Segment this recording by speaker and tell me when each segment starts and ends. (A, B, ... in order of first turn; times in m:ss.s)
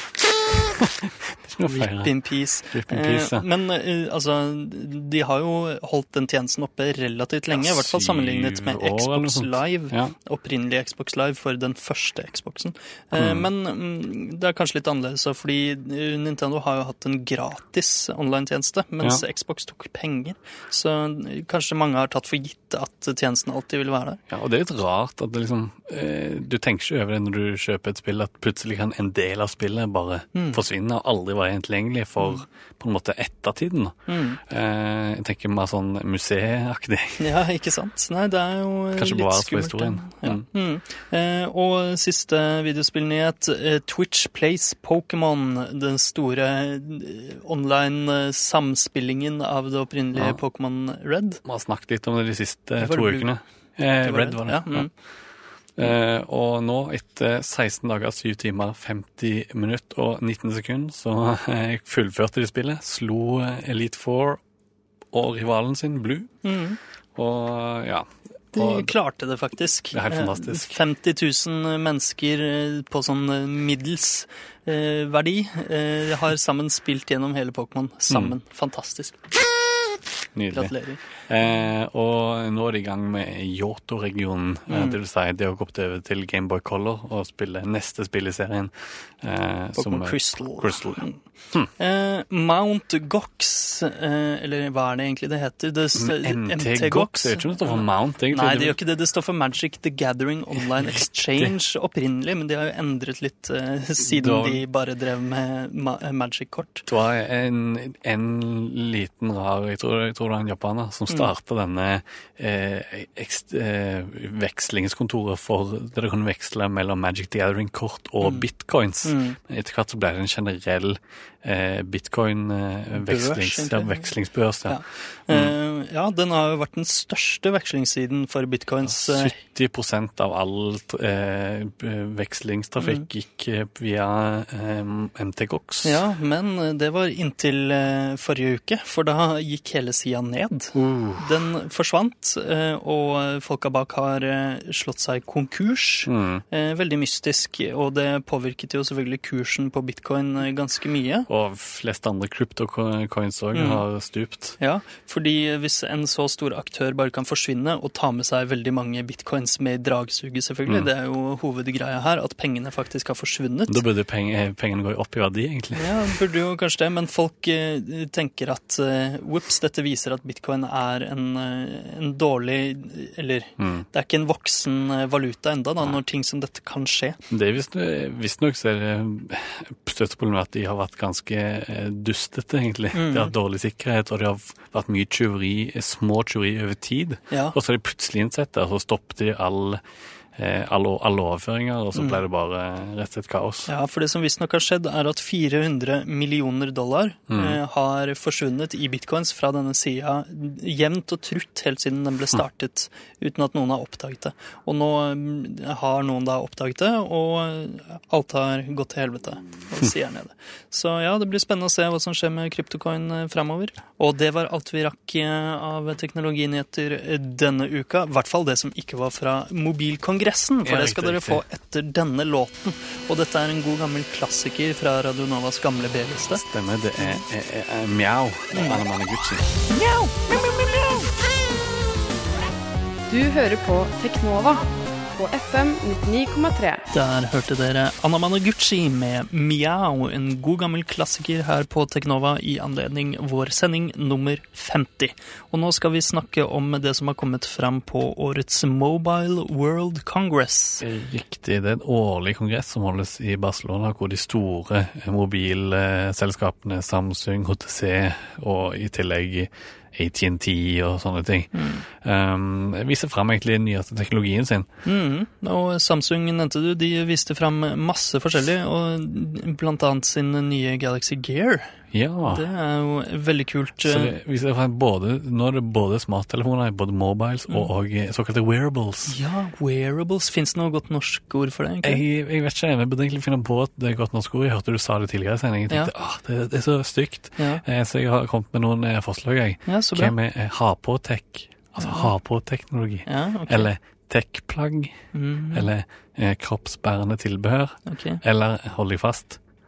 0:00.7-0:02.2 A
0:01.6-0:24.2 B
0:02.7-0:03.4 A
0:07.5-0:10.1 A
0:13.1-0:13.5 A
0:24.3-0:37.2 A
0:30.3-0:30.6 B
0:32.2-0:32.4 B
0:34.1-0:34.4 B
0:37.2-0:51.4 B
0:38.9-0:40.4 A
0:51.4-0:54.9 A
0:52.8-0:53.3 B
0:54.0-0:54.9 B
0:55.8-1:04.4 A
1:05.1-1:06.3 A
1:06.4-1:06.8 B
1:07.2-1:08.9 A
1:08.5-1:19.2 B
1:09.9-1:10.8 A
1:18.1-1:18.4 A
1:20.3-1:31.7 A
1:20.5-1:21.0 B
1:24.7-1:25.0 B
1:29.7-1:31.2 B
1:31.8-1:46.9 B
1:35.9-1:38.8 A
1:41.0-1:41.5 A
1:44.0-1:44.6 A
1:46.9-2:05.5 A
1:59.0-1:59.4 B
2:02.9-2:04.1 B
2:04.7-2:09.4 B
2:08.8-2:16.0 A
2:12.8-2:13.1 B
2:15.8-2:31.3 B
2:20.7-2:21.3 A
2:26.1-2:26.4 A
2:31.3-2:34.6 A
2:33.5-2:33.8 B
2:34.6-2:43.8 B
2:43.7-2:46.0 A
2:45.7-2:57.2 B
2:53.6-2:53.8 A
2:57.3-3:09.8 A
3:02.9-3:03.3 B
3:07.3-3:07.6 B
3:10.4-3:13.7 A
3:11.9-3:12.2 B
3:13.7-3:46.4 B
3:17.3-3:17.6 A
3:40.6-3:41.4 A
3:46.3-3:49.6 A
3:47.0-3:47.2 B
3:48.5-3:48.8 B
3:49.7-3:51.0 B
3:53.1-3:54.6 C
3:55.2-3:56.8 C
3:56.9-4:10.8 B
4:10.8-4:24.7 A
4:21.5-4:21.8 B
4:24.8-4:31.7 B
4:31.9-4:32.4 A
4:32.2-4:34.1 B
4:33.8-4:39.2 A
4:39.1-4:42.0 B
4:41.8-4:55.0 A
4:47.4-4:47.6 B
4:49.7-4:50.1 B
4:51.8-4:52.1 B
4:53.0-4:53.7 B
4:55.1-4:55.7 B
4:55.5-4:59.4 A
4:57.8-4:58.2 B